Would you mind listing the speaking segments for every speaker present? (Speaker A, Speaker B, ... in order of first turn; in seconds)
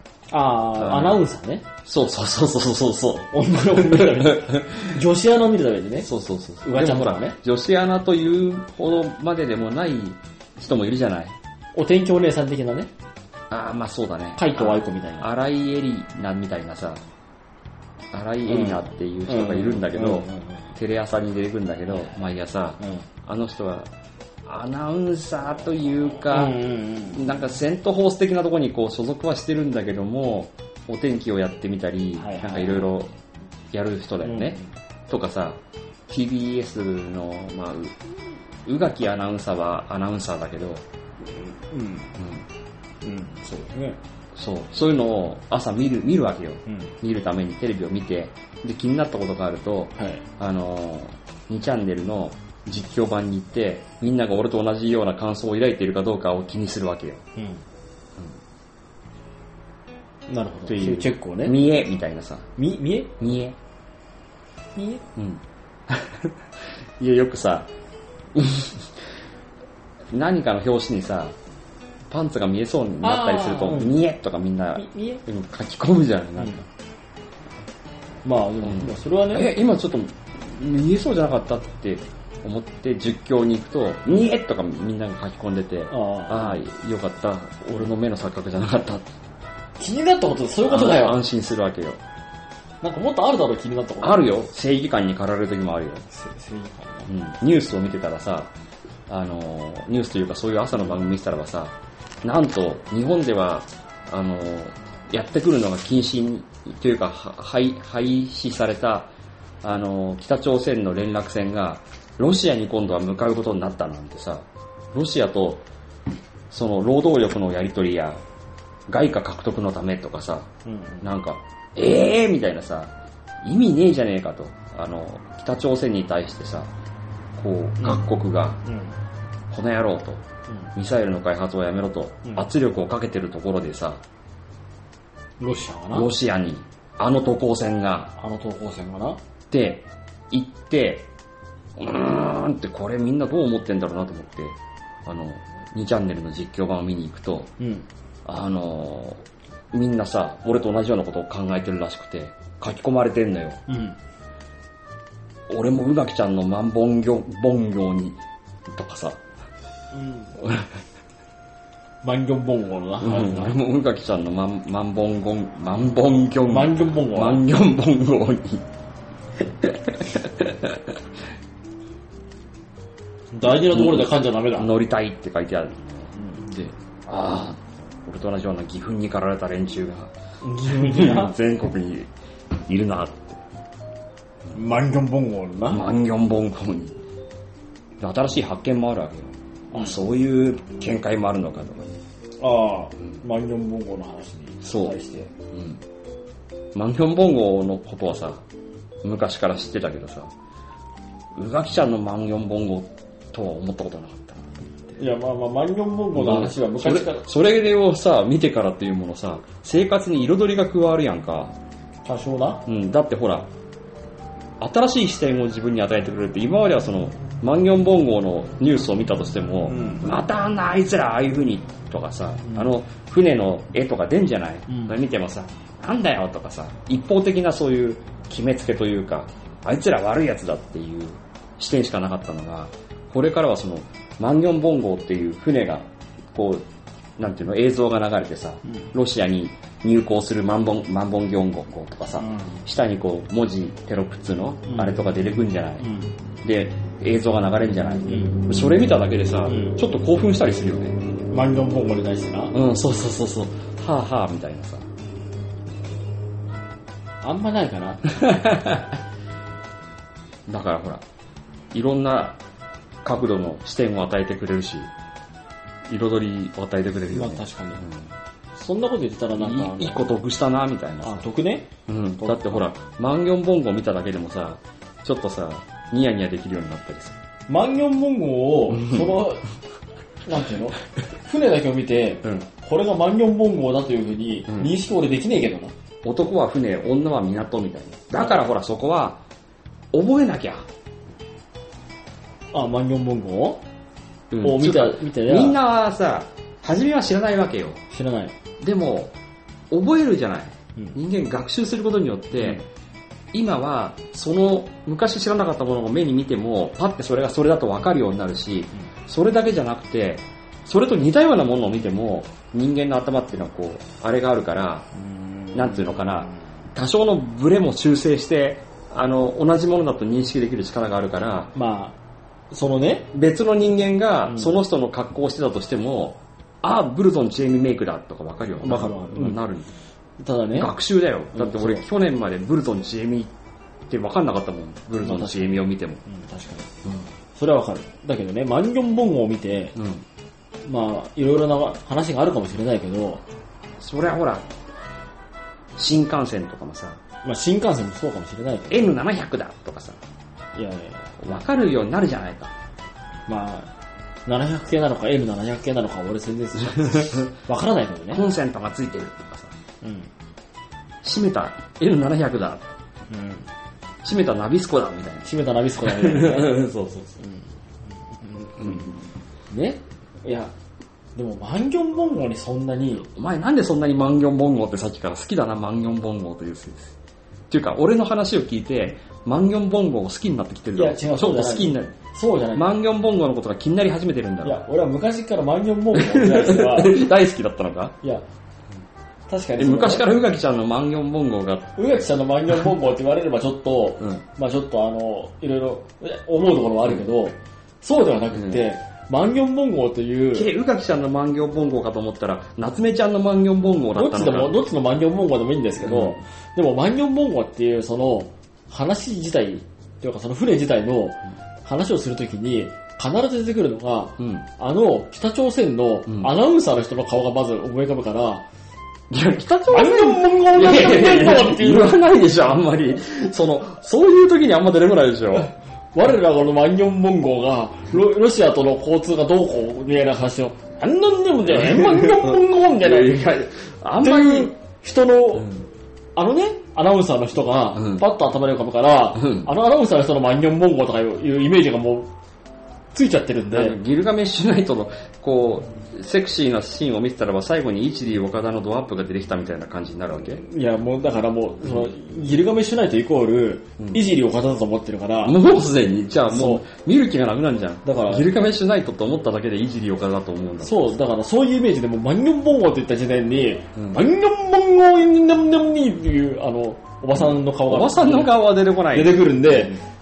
Speaker A: 0.3-1.7, 3.3-6.1, 6.6-7.4, 11.7-12.9, 14.4-15.3, 18.5-20.7, 21.9-22.2, 22.8-23.1, 26.3-27.2, 32.2-32.9, 34.2-34.7, 41.2-42.2, 43.0-44.0, 46.7-46.9, 50.0-50.2, 57.4-57.6, 60.3-61.6, 62.6-63.1, 64.8-65.0, 73.0-74.0, 74.8-75.2, 76.4-76.6, 78.2-79.5, 85.9-86.6, 89.8-91.2, 92.8-94.2, 96.1-97.1, 120.7-121.1, 127.8-128.1, 128.6-129.0, 135.4-136.1, 138.2-139.2, 147.6-147.9, 153.7-154.0, 159.9-160.3, 162.0-163.6, 166.5-167.4, 173.3-174.7, 176.2-176.7, 180.4-181.4, 184.5-185.9, 189.7-190.0, 192.4-195.3, 205.0-207.3, 212.0-212.6, 219.7-220.1, 222.4-222.8, 224.7-225.0, 242.2-242.6, 244.7-245.0, 245.8-246.2, 248.1-248.4, 249.5-249.8, 251.3-252.6, 257.2-258.2, 267.1-267.9, 268.6-270.0, 271.0-272.6, 277.5-279.4, 280.2-285.7, 292.5-293.6, 294.4-295.6, 297.9-298.4, 314.9-316.2, 321.6-322.0, 322.5-323.1, 324.3-324.6, 328.6-329.4, 330.2-330.7, 331.3-331.8, 335.0-336.7, 337.4-339.8, 340.6-343.2, 347.2-348.9, 350.6-351.2, 353.3-353.7, 354.2-358.2, 359.8-360.1, 363.1-363.5, 365.2-366.6, 367.2-368.9, 369.5-370.5, 371.1-373.1, 380.8-382.7, 384.4-387.1, 389.3-390.1, 391.8-400.5, 403.9-418.5, 419.7-422.0, 425.9-433.2, 434.0-435.5, 436.1-442.1, 442.9-443.8, 450.2-455.4, 456.3-456.7, 457.9-458.4, 460.6-469.8
Speaker B: 0.8-1.2, 1.8-5.0, 6.0-11.4, 13.5-17.0, 18.1-23.9, 24.5-33.1, 33.7-38.0, 38.6-40.8, 42.2-42.5, 44.4-57.2, 60.7-62.5, 63.2-63.6, 65.2-66.3, 67.0-67.7, 68.3-68.9, 70.1-71.3, 72.1-76.7, 78.6-89.1, 90.7-92.0, 94.0-96.1, 97.1-98.5, 99.1-109.1, 109.6-115.7, 116.5-118.2, 118.9-120.5, 121.0-126.7, 127.4-128.6, 129.5-134.0, 135.9-138.2, 139.5-141.1, 141.8-147.5, 148.2-153.6, 155.5-159.2, 160.4-160.7, 163.0-168.7, 169.6-171.0, 173.7-176.1, 177.1-180.1, 180.7-182.1, 182.7-183.4, 185.7-187.0, 188.0-192.0, 194.6-195.0, 195.5-195.8, 196.7-198.4, 199.0-200.3, 201.3-205.0, 206.1-211.6, 212.7-213.5, 214.6-236.7, 237.2-245.9, 246.4-251.0, 252.5-254.9, 258.2-258.9, 260.5-261.0, 261.7-262.4, 263.0-264.9, 265.9-268.1, 269.4-271.3, 271.9-277.2, 278.7-279.2, 286.0-289.2, 289.9-290.7, 294.3-297.8, 298.6-299.1, 299.7-302.6, 303.3-314.9, 315.5-321.5, 323.1-329.7, 330.5-333.3, 333.9-336.0, 336.8-337.1, 339.8-340.1, 343.8-344.5, 345.8-347.0, 348.7-350.0, 351.2-352.5, 356.8-357.4, 358.1-359.5, 361.0-362.7, 364.0-367.2, 368.6-369.0, 373.1-377.0, 377.5-382.0, 382.5-384.6, 385.9-388.0, 389.6-391.8, 398.3-398.6, 400.3-404.6, 405.8-406.2, 414.2-414.5, 419.1-425.5, 431.4-434.6, 435.4-435.7, 437.8-438.1, 439.2-439.5, 443.5-450.4, 453.8-454.1, 455.2-461.0, 463.8-464.0, 467.1-469.8